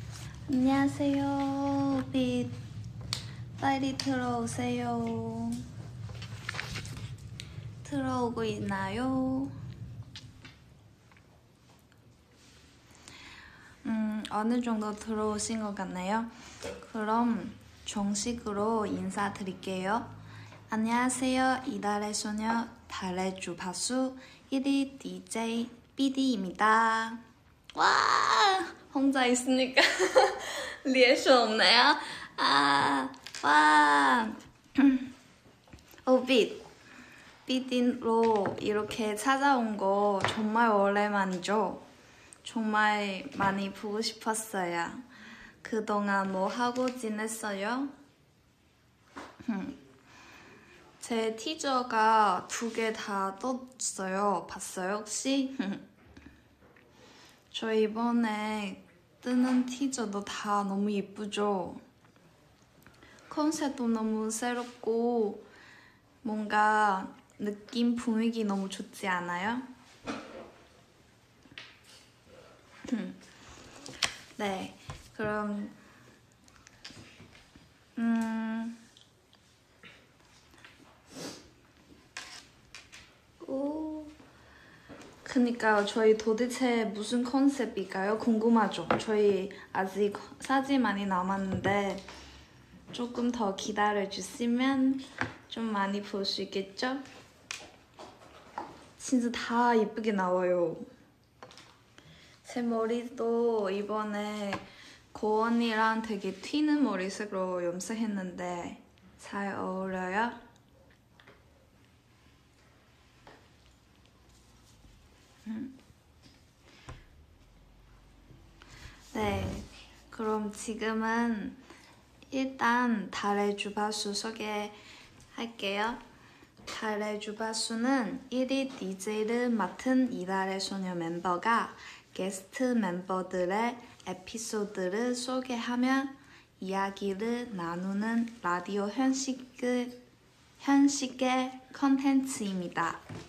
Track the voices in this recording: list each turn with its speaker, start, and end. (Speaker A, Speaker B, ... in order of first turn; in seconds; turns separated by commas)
Speaker A: 0.5-2.6, Speaker A: 3.6-5.6, Speaker A: 7.8-9.5, Speaker A: 13.8-20.1, Speaker A: 20.7-27.2, Speaker A: 27.8-35.1, Speaker A: 36.0-36.6, Speaker A: 37.5-41.8, Speaker A: 42.4-45.0, Speaker A: 45.6-47.9, Speaker A: 49.4-49.8, Speaker A: 51.0-55.8, Speaker A: 57.5-61.8, Speaker A: 63.3-65.4, Speaker A: 66.2-69.7, Speaker A: 72.9-73.2, Speaker A: 74.4-75.8, Speaker A: 78.0-78.8, Speaker A: 83.4-84.1, Speaker A: 85.2-92.0, Speaker A: 92.9-97.0, Speaker A: 99.0-100.9, Speaker A: 102.4-110.4, Speaker A: 115.5-115.8, Speaker A: 119.1-121.6, Speaker A: 122.3-124.8, Speaker A: 125.3-126.0, Speaker A: 126.7-140.0, Speaker A: 140.6-143.0